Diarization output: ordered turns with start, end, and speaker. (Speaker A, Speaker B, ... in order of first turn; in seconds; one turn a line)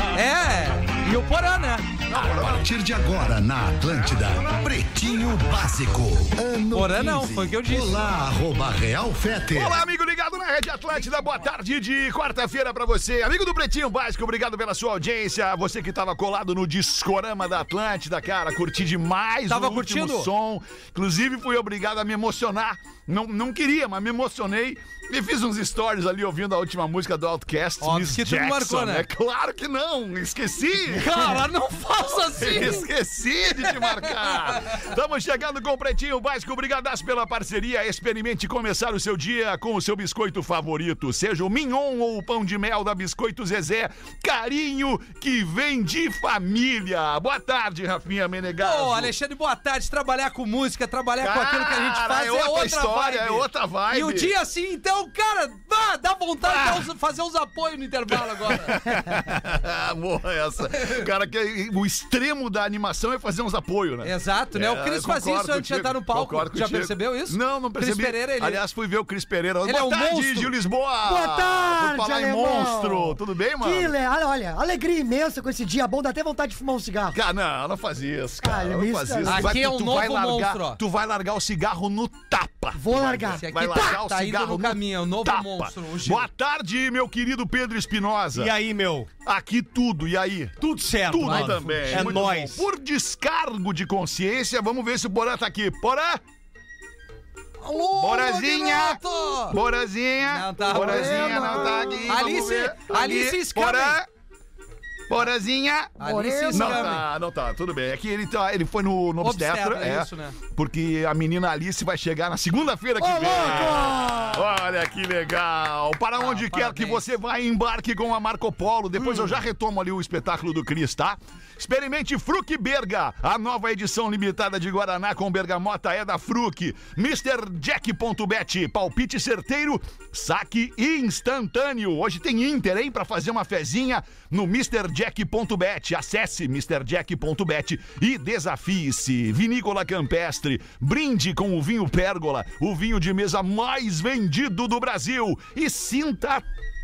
Speaker A: 0.1-2.5
Speaker B: 2.1-2.6
Speaker C: 2.1-9.8
Speaker A: 6.7-8.0
Speaker B: 9.5-31.4
Speaker A: 19.5-20.3
Speaker A: 27.8-29.1
Speaker A: 30.9-32.9
Speaker B: 32.4-49.1
Speaker A: 33.6-34.6
Speaker A: 48.6-58.8
Speaker B: 51.2-54.3
Speaker B: 56.4-56.9
Speaker B: 58.1-74.0
Speaker A: 64.0-68.6
Speaker A: 69.6-70.5
Speaker D: 71.0-77.2
Speaker B: 77.1-88.5
Speaker D: 78.4-79.5
Speaker A: 79.3-80.8
Speaker D: 82.7-83.4
Speaker A: 83.3-86.2
Speaker E: 88.3-89.1
Speaker B: 89.2-96.2
Speaker E: 90.6-92.6
Speaker A: 91.2-92.2
Speaker A: 97.6-99.6
Speaker B: 97.9-104.1
Speaker A: 100.2-104.0
Speaker D: 100.7-102.1
Speaker B: 105.1-106.0
Speaker D: 106.0-106.9
Speaker A: 106.0-107.0
Speaker B: 106.5-146.4
Speaker A: 109.2-110.4
Speaker D: 113.0-114.5
Speaker A: 116.2-117.0
Speaker A: 119.0-119.3